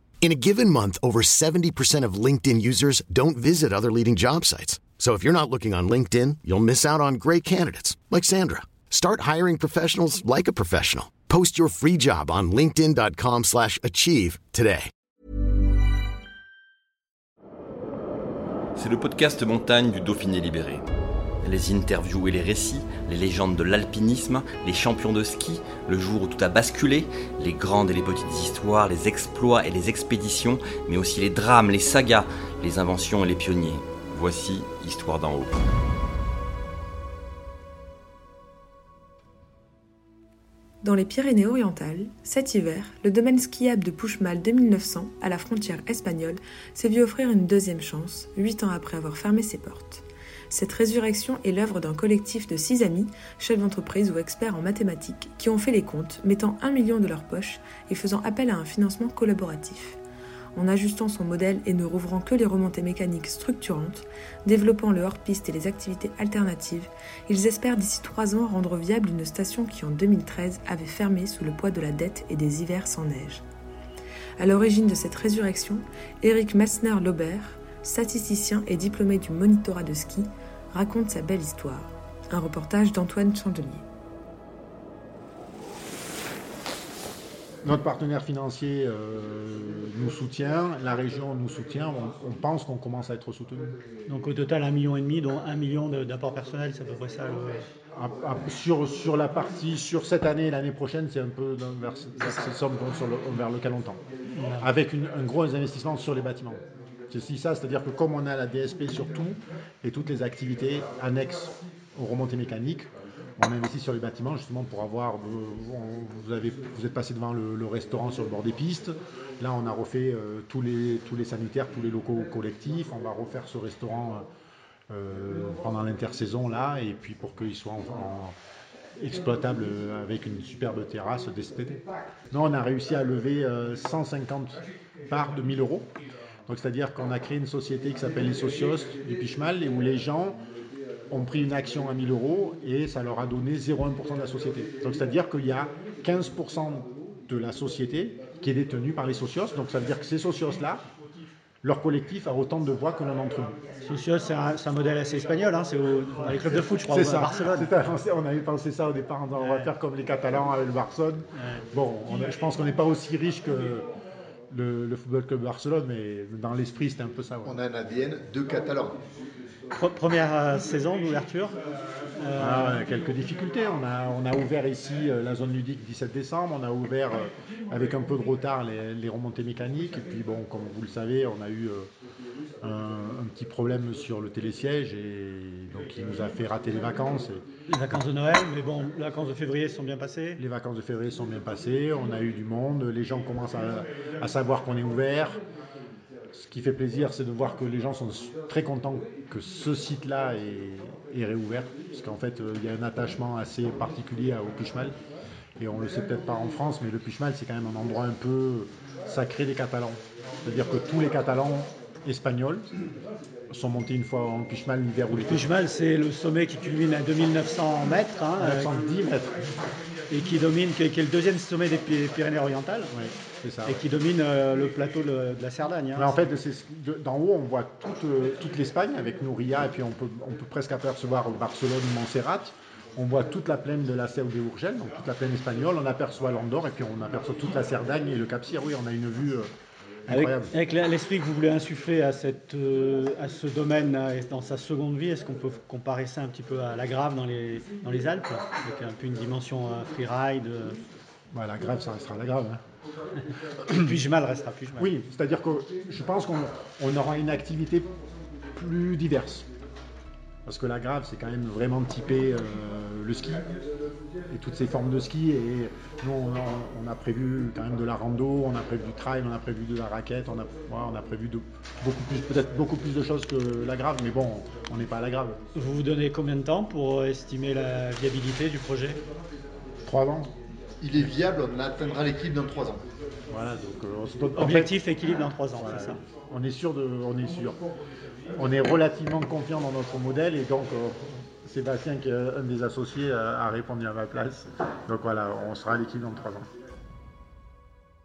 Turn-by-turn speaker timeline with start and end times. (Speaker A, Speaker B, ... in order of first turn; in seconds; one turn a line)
Speaker A: 0.2-14.9
Speaker B: 18.8-20.9
Speaker B: 21.4-35.6
Speaker C: 40.8-60.0
Speaker C: 60.5-73.4
Speaker C: 74.4-83.8
Speaker D: 87.6-93.8
Speaker E: 94.1-97.7
Speaker D: 97.9-104.0
Speaker E: 104.3-104.7
Speaker D: 104.6-124.3
Speaker D: 124.9-128.3
Speaker D: 129.0-131.8
Speaker D: 132.3-135.9
Speaker D: 136.5-140.4
Speaker D: 141.1-150.8
Speaker D: 151.6-153.6
Speaker E: 153.8-157.7
Speaker D: 156.8-163.9
Speaker E: 159.4-159.7
Speaker E: 161.4-161.6
Speaker D: 164.5-167.6
Speaker F: 167.4-169.0
Speaker E: 169.7-171.6
Speaker E: 172.2-172.8
Speaker D: 172.4-181.9
Speaker D: 182.6-187.5
Speaker E: 187.7-190.4
Speaker D: 190.4-195.4
Speaker D: 196.3-204.9
Speaker D: 205.6-212.7
Speaker D: 213.5-215.5
Speaker E: 215.1-218.7
Speaker D: 218.4-219.4
Speaker E: 220.1-222.9
Speaker D: 222.9-223.8
Speaker E: 223.7-226.2
Speaker D: 225.9-239.5
Speaker D: 240.1-240.5
Speaker E: 240.1-250.8
Speaker D: 251.3-252.6
Speaker E: 253.7-254.9
Speaker D: 254.8-257.9
Speaker D: 258.6-259.5
Speaker D: 260.5-263.4
Speaker D: 264.3-275.4
Speaker E: 275.6-279.0
Speaker D: 279.9-280.3
Speaker F: 280.8-282.8
Speaker D: 283.3-284.7
Speaker E: 284.4-286.0
Speaker D: 285.6-287.6
Speaker D: 288.4-296.5